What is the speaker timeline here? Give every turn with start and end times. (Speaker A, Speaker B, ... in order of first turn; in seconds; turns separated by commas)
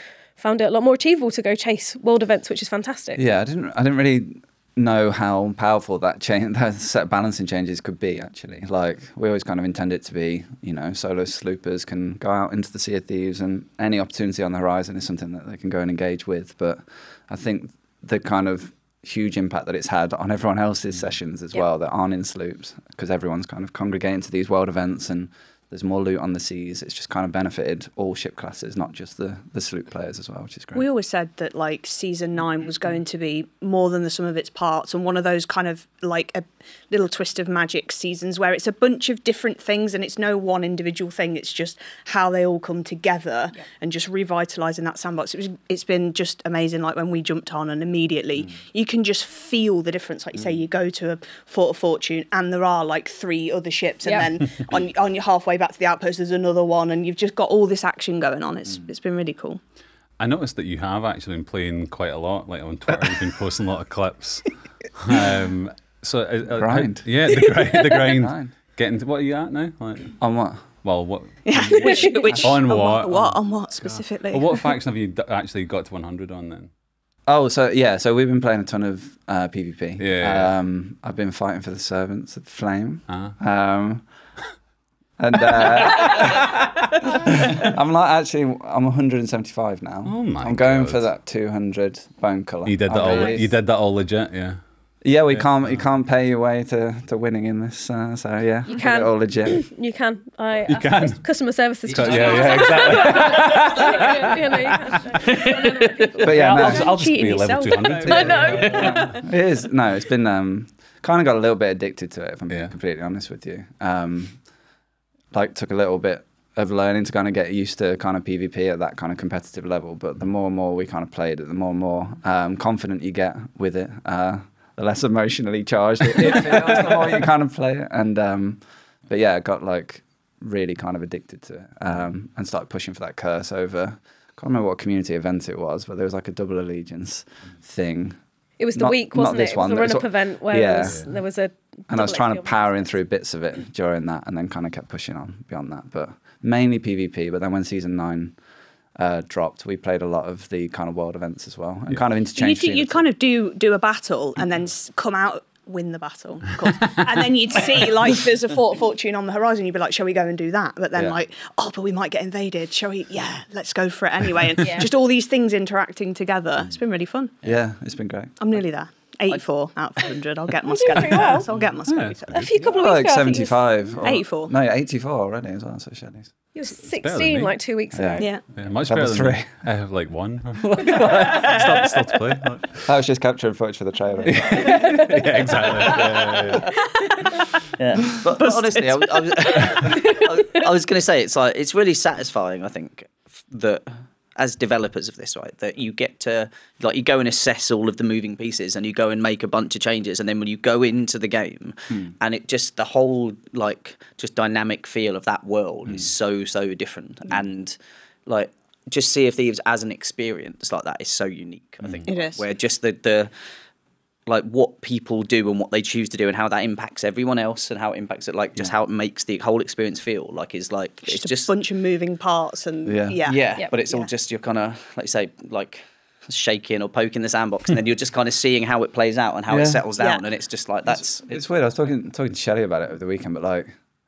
Speaker A: 0.3-3.2, Speaker B: 3.1-30.9, Speaker C: 30.8-59.6, Speaker D: 60.2-76.7, Speaker B: 66.5-67.5, Speaker B: 68.2-68.5, Speaker B: 70.2-70.7, Speaker C: 71.5-74.6, Speaker B: 77.3-84.1, Speaker D: 80.0-80.5, Speaker D: 83.1-83.4, Speaker B: 85.2-86.5, Speaker B: 87.3-93.5, Speaker D: 90.0-91.1, Speaker D: 92.6-94.6, Speaker B: 95.0-99.7, Speaker D: 95.3-95.8, Speaker A: 98.7-106.1, Speaker D: 100.7-104.3, Speaker E: 101.9-102.9, Speaker C: 106.0-109.2, Speaker B: 106.2-106.9, Speaker D: 106.2-108.8, Speaker B: 108.0-114.5, Speaker A: 108.0-109.0, Speaker B: 115.3-138.2, Speaker A: 138.6-142.9, Speaker B: 138.8-141.1, Speaker B: 141.9-148.4, Speaker B: 148.9-153.1, Speaker C: 152.3-167.3, Speaker B: 167.4-168.5, Speaker C: 168.4-172.4, Speaker A: 170.6-171.5, Speaker D: 171.8-172.5, Speaker A: 172.3-173.7, Speaker B: 172.6-176.3, Speaker C: 174.0-174.5, Speaker A: 176.5-178.4, Speaker D: 176.9-177.7, Speaker B: 177.9-178.3, Speaker C: 178.2-178.5, Speaker D: 178.5-182.9, Speaker B: 178.9-179.6, Speaker B: 182.9-185.0, Speaker D: 184.3-186.7, Speaker A: 184.6-185.0, Speaker E: 187.8-213.3, Speaker C: 212.1-212.4, Speaker E: 214.3-221.5, Speaker C: 221.1-224.1, Speaker B: 222.9-223.2, Speaker E: 223.2-231.4, Speaker B: 229.5-229.8, Speaker B: 231.3-233.7